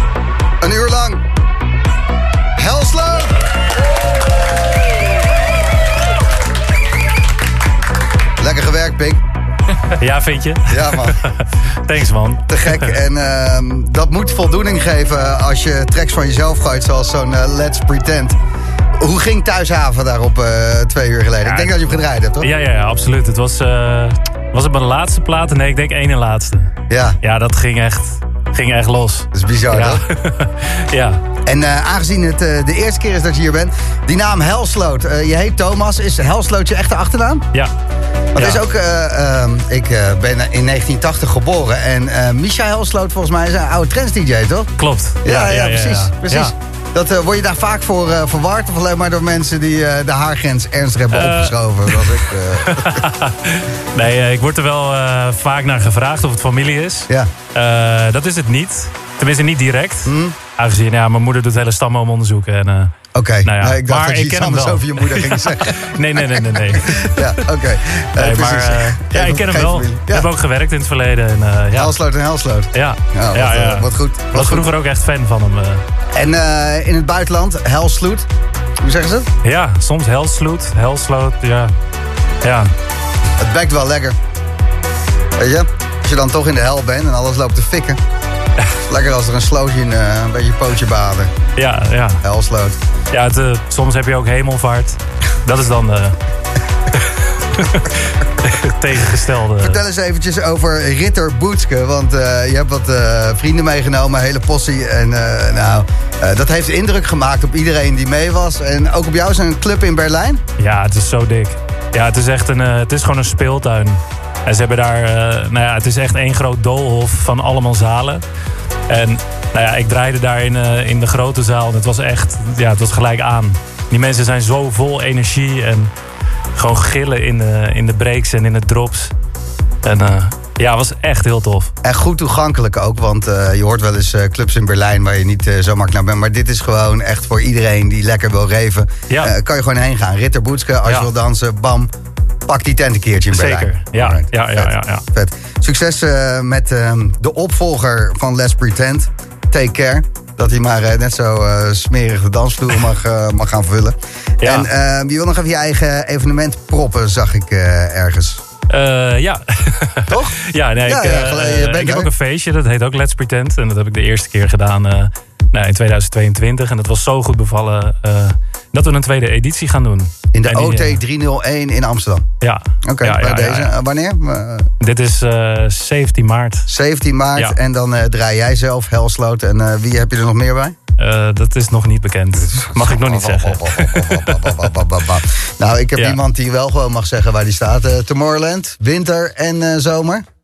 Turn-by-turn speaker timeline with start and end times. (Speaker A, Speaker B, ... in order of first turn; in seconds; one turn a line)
Speaker A: 0.6-1.2
Speaker A: 2.6-3.4
Speaker A: 8.4-9.2
Speaker B: 9.9-12.9
Speaker A: 10.7-11.2
Speaker A: 12.5-18.4
Speaker A: 19.0-22.5
Speaker B: 21.4-21.8
Speaker B: 22.4-26.7
Speaker A: 26.9-27.2
Speaker B: 27.2-31.2
Speaker A: 29.3-30.0
Speaker A: 31.5-37.5
Speaker A: 38.4-44.7
Speaker B: 44.8-46.5
Speaker A: 45.2-53.0
Speaker B: 51.1-62.9
Speaker A: 60.1-60.4
Speaker A: 63.1-70.3
Speaker B: 63.4-67.5
Speaker B: 68.2-72.0
Speaker A: 71.8-74.7
Speaker B: 72.7-75.8
Speaker A: 76.1-78.3
Speaker A: 78.8-79.3
Speaker B: 79.4-81.7
Speaker B: 82.4-82.7
Speaker A: 83.4-84.2
Speaker A: 85.4-88.0
Speaker A: 88.9-91.3
Speaker B: 91.6-92.2
Speaker A: 92.2-92.8
Speaker B: 93.1-96.2
Speaker B: 96.9-99.8
Speaker A: 99.6-110.4
Speaker B: 110.6-118.2
Speaker B: 118.9-125.9
Speaker B: 126.6-129.1
Speaker B: 129.8-131.7
Speaker A: 131.8-141.9
Speaker A: 142.5-158.4
Speaker B: 143.3-145.0
Speaker B: 154.4-154.7
Speaker B: 158.7-171.0
Speaker A: 160.1-162.1
Speaker A: 170.3-172.3
Speaker B: 172.4-173.7
Speaker A: 172.8-174.7
Speaker B: 174.8-176.7
Speaker A: 176.7-180.8
Speaker B: 181.0-184.7
Speaker A: 182.4-190.2